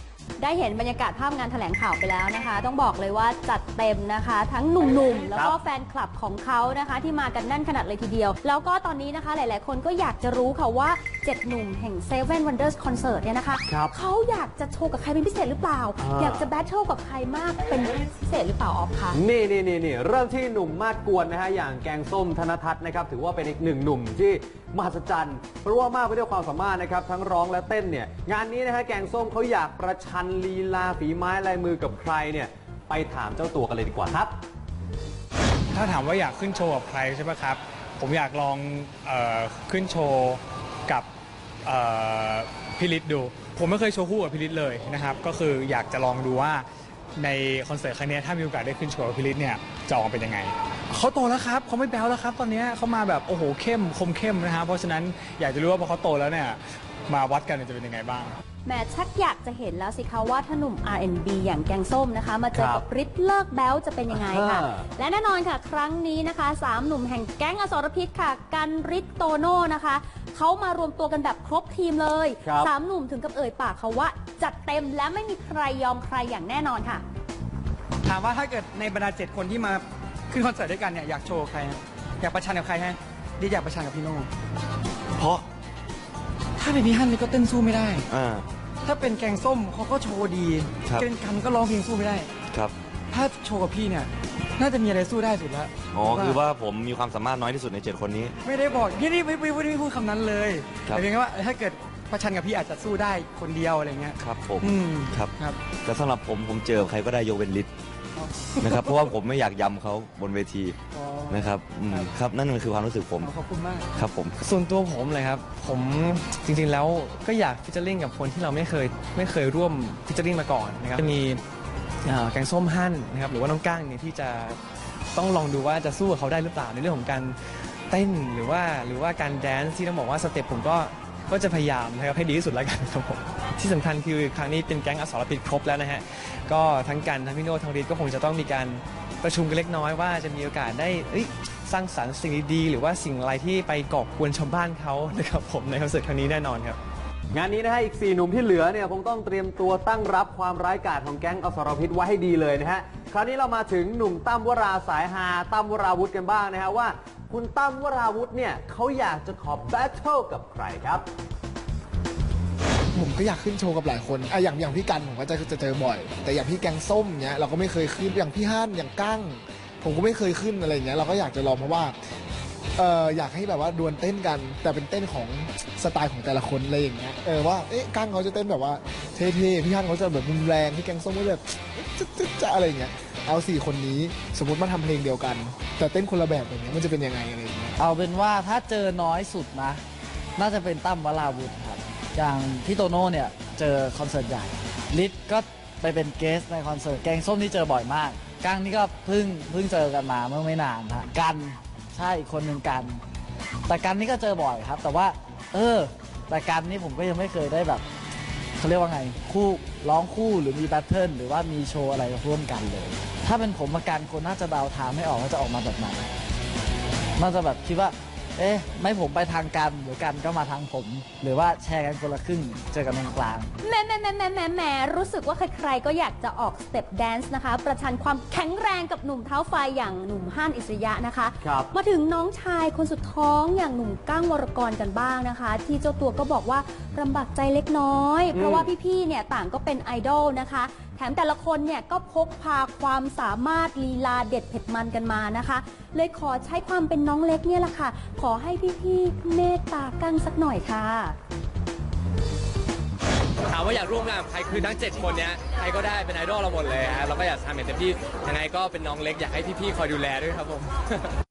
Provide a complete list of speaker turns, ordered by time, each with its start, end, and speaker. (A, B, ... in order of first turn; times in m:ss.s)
0:00.4-0:19.2 A
0:13.7-0:13.9 B
0:16.0-0:16.5 B
0:19.1-0:34.3 B
0:35.7-0:41.1 C
0:41.6-0:46.7 C
0:47.2-0:58.4 C
0:58.6-1:17.0 A
1:02.5-1:02.8 B
1:04.1-1:04.8 B
1:12.4-1:12.7 B
1:18.0-1:24.3 D
1:25.2-1:25.5 E
1:26.6-1:28.1 D
1:28.1-1:28.4 E
1:28.8-1:32.3 D
1:32.5-1:32.8 E
1:33.1-1:36.4 D
1:35.9-1:38.3 E
1:38.4-1:45.6 D
1:44.2-1:45.3 E
1:45.8-1:47.7 E
1:48.2-1:49.0 D
1:48.6-1:50.8 E
1:50.9-1:52.1 D
1:51.3-1:53.3 E
1:53.2-1:53.9 D
1:53.9-1:54.4 E
1:54.4-2:01.4 F
2:02.0-2:04.6 F
2:05.1-2:07.4 F
2:07.9-2:26.8 F
2:27.3-2:41.1 B
2:42.9-2:52.0 G
2:52.8-3:07.8 G
3:07.8-3:09.8 H
3:10.4-3:23.0 H
3:23.7-3:27.8 H
3:28.6-3:36.1 H
3:37.2-3:43.5 H
3:43.6-4:11.2 A
3:51.4-3:51.7 B
3:58.3-3:58.7 B
4:13.5-4:21.0 I